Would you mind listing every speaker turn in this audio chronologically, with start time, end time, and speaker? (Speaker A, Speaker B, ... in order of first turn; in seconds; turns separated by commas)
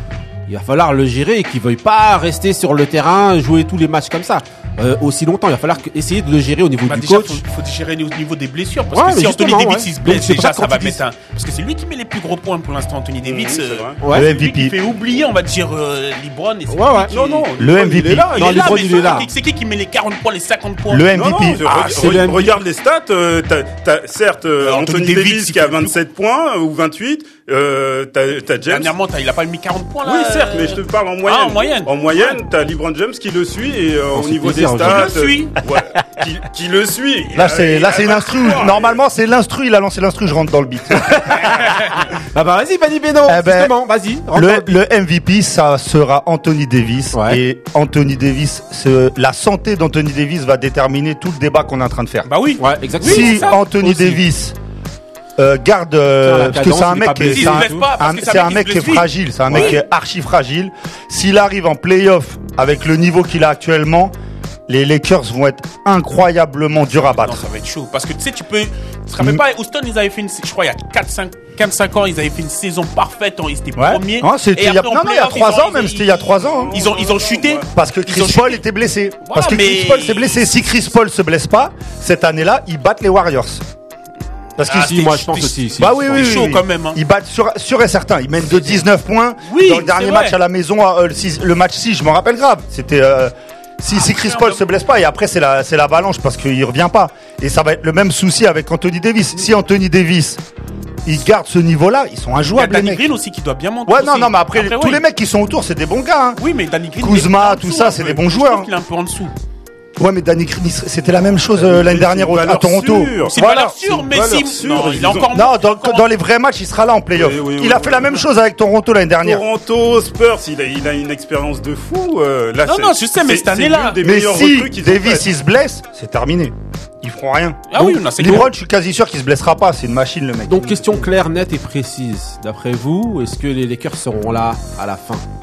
Speaker A: 0.5-7.4, Speaker B: 6.8-22.4, Speaker A: 8.9-11.0, Speaker C: 13.2-14.1, Speaker A: 14.0-14.3, Speaker D: 14.1-14.8, Speaker A: 16.7-17.1, Speaker C: 17.1-18.6, Speaker D: 17.6-18.7, Speaker A: 18.4-19.3, Speaker D: 20.9-21.6, Speaker C: 21.1-28.9, Speaker A: 21.7-22.6, Speaker B: 24.6-25.9, Speaker B: 28.6-32.4, Speaker C: 30.0-39.0, Speaker A: 34.1-35.1, Speaker B: 34.9-35.5, Speaker D: 37.3-41.5, Speaker A: 42.3-44.8, Speaker D: 43.2-43.7, Speaker D: 44.3-52.3, Speaker A: 47.1-47.4, Speaker B: 52.3-53.6, Speaker A: 52.6-54.2, Speaker D: 53.0-54.5, Speaker D: 55.4-64.1, Speaker A: 56.2-57.9, Speaker B: 57.2-59.8, Speaker D: 64.7-67.4, Speaker B: 66.9-78.6, Speaker D: 73.8-76.8, Speaker C: 76.5-77.7, Speaker D: 77.7-83.6, Speaker B: 79.2-80.5, Speaker D: 84.6-100.4, Speaker A: 84.7-86.2, Speaker B: 84.8-87.0, Speaker B: 88.5-88.8, Speaker B: 89.4-90.3, Speaker B: 93.9-94.6, Speaker D: 101.0-103.1, Speaker B: 102.5-105.0, Speaker D: 103.8-106.4, Speaker B: 106.4-109.3, Speaker D: 107.0-108.7, Speaker D: 110.0-114.2, Speaker C: 111.6-113.4, Speaker B: 113.2-116.1, Speaker C: 114.2-115.3, Speaker D: 115.1-119.4, Speaker C: 117.2-118.3, Speaker C: 119.2-125.2, Speaker B: 122.6-124.0, Speaker D: 124.0-130.8, Speaker B: 127.7-128.5, Speaker A: 127.7-128.4, Speaker A: 130.4-135.2